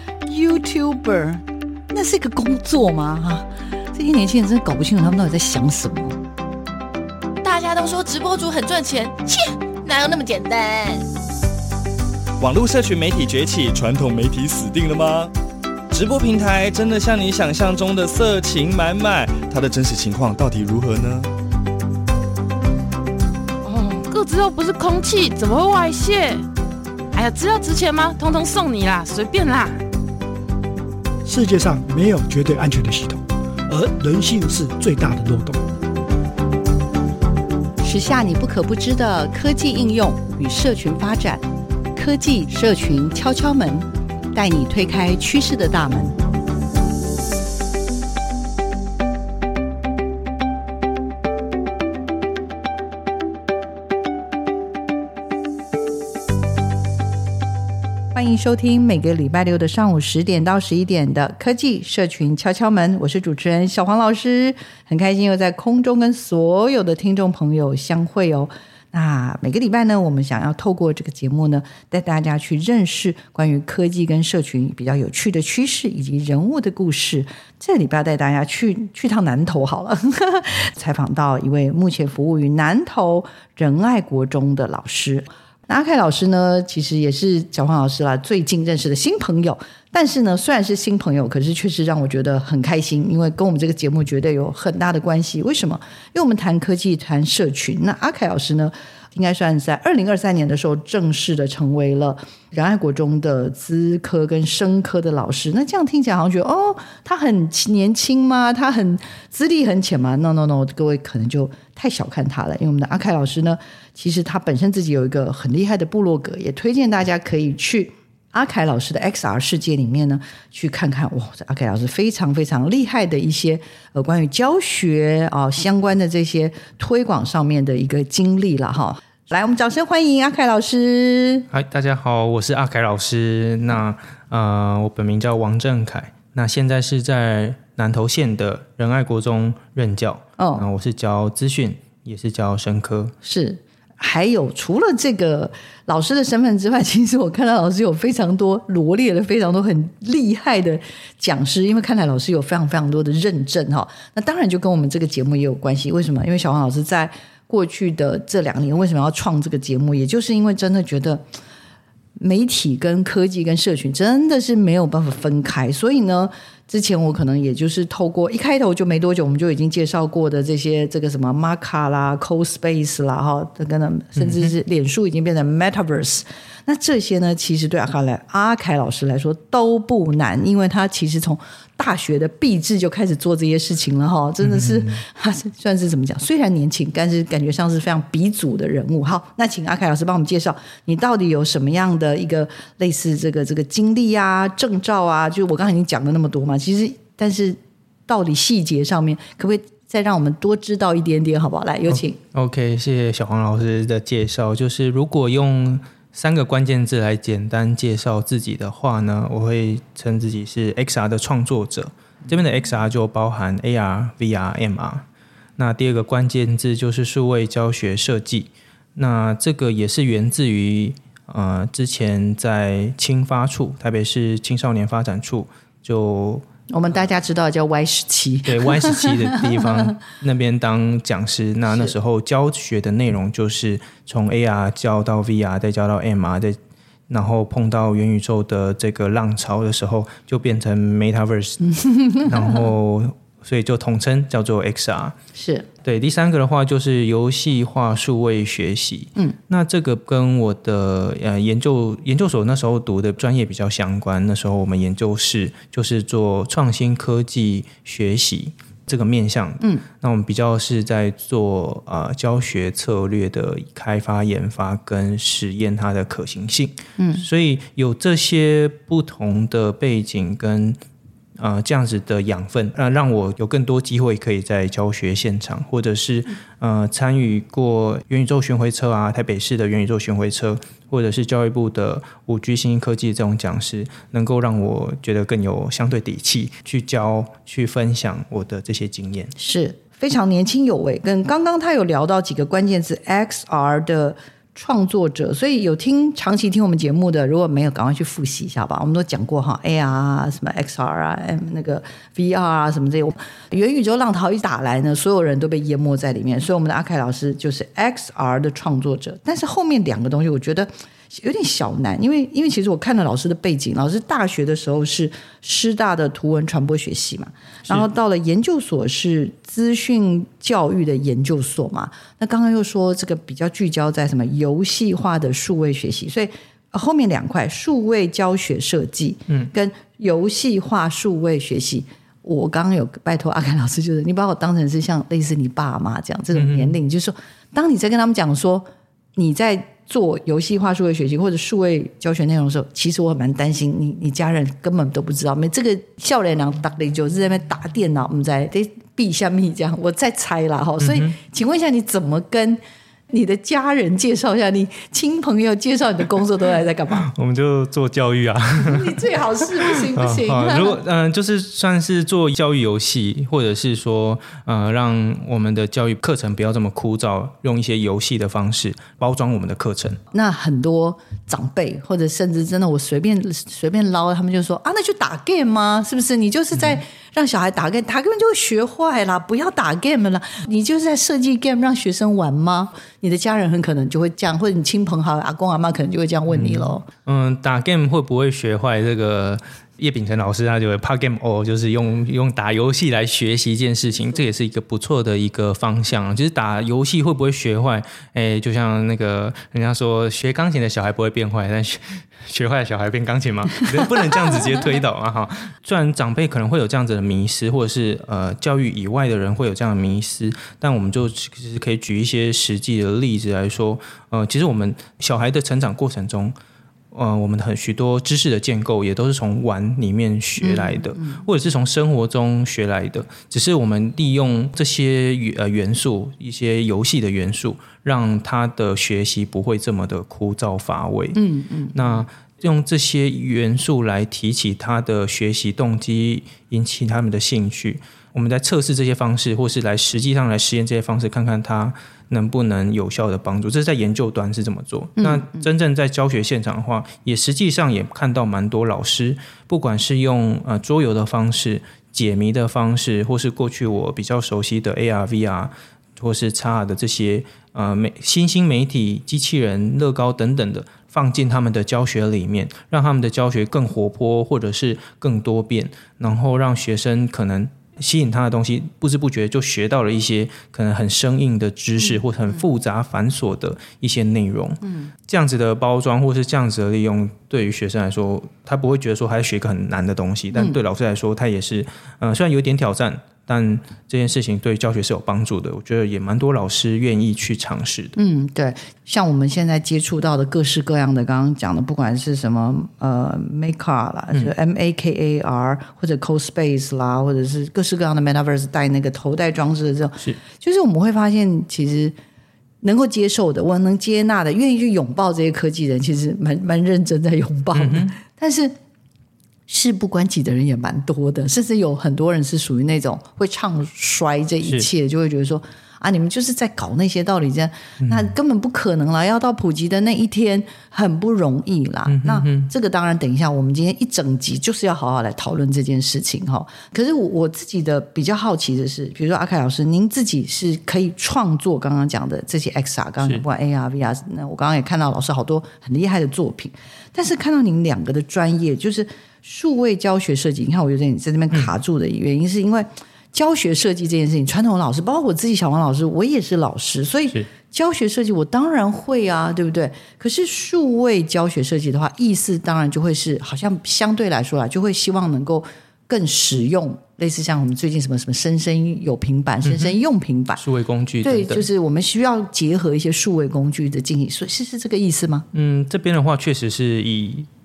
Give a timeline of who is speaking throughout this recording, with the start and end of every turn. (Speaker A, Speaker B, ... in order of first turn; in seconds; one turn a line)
Speaker A: 0.2-6.2
Speaker B: 7.4-11.1
Speaker C: 12.4-15.3
Speaker C: 15.9-21.3
Speaker B: 23.6-26.4
Speaker B: 27.1-29.8
Speaker D: 31.2-35.6
Speaker A: 37.8-46.2
Speaker A: 58.1-131.5
Speaker E: 131.5-143.1
Speaker A: 140.4-140.7
Speaker A: 143.2-161.2
Speaker A: 162.2-202.2
Speaker E: 174.2-174.5
Speaker E: 184.4-184.9
Speaker E: 201.9-215.1
Speaker E: 215.6-226.4
Speaker A: 226.7-229.9
Speaker E: 228.4-236.6
Speaker E: 237.1-245.1
Speaker A: 241.8-242.3
Speaker A: 245.3-245.7
Speaker E: 245.8-270.8
Speaker A: 267.0-267.2
Speaker E: 271.4-289.3
Speaker A: 289.4-357.1
Speaker E: 336.3-336.7
Speaker E: 350.8-351.1
Speaker E: 357.0-359.0
Speaker A: 358.6-360.8
Speaker E: 359.7-370.0
Speaker A: 370.1-386.8
Speaker E: 386.3-416.3
Speaker E: 416.9-431.2
Speaker A: 420.4-421.2
Speaker A: 431.1-432.0
Speaker E: 431.7-487.9
Speaker A: 445.0-445.3
Speaker A: 487.9-501.9
Speaker A: 502.6-508.5
Speaker E: 507.5-507.9
Speaker A: 509.5-560.4
Speaker E: 517.8-518.1
Speaker E: 521.9-522.5
Speaker E: 559.4-559.7
Speaker E: 560.4-561.5
Speaker A: 561.0-565.2
Speaker E: 565.3-567.3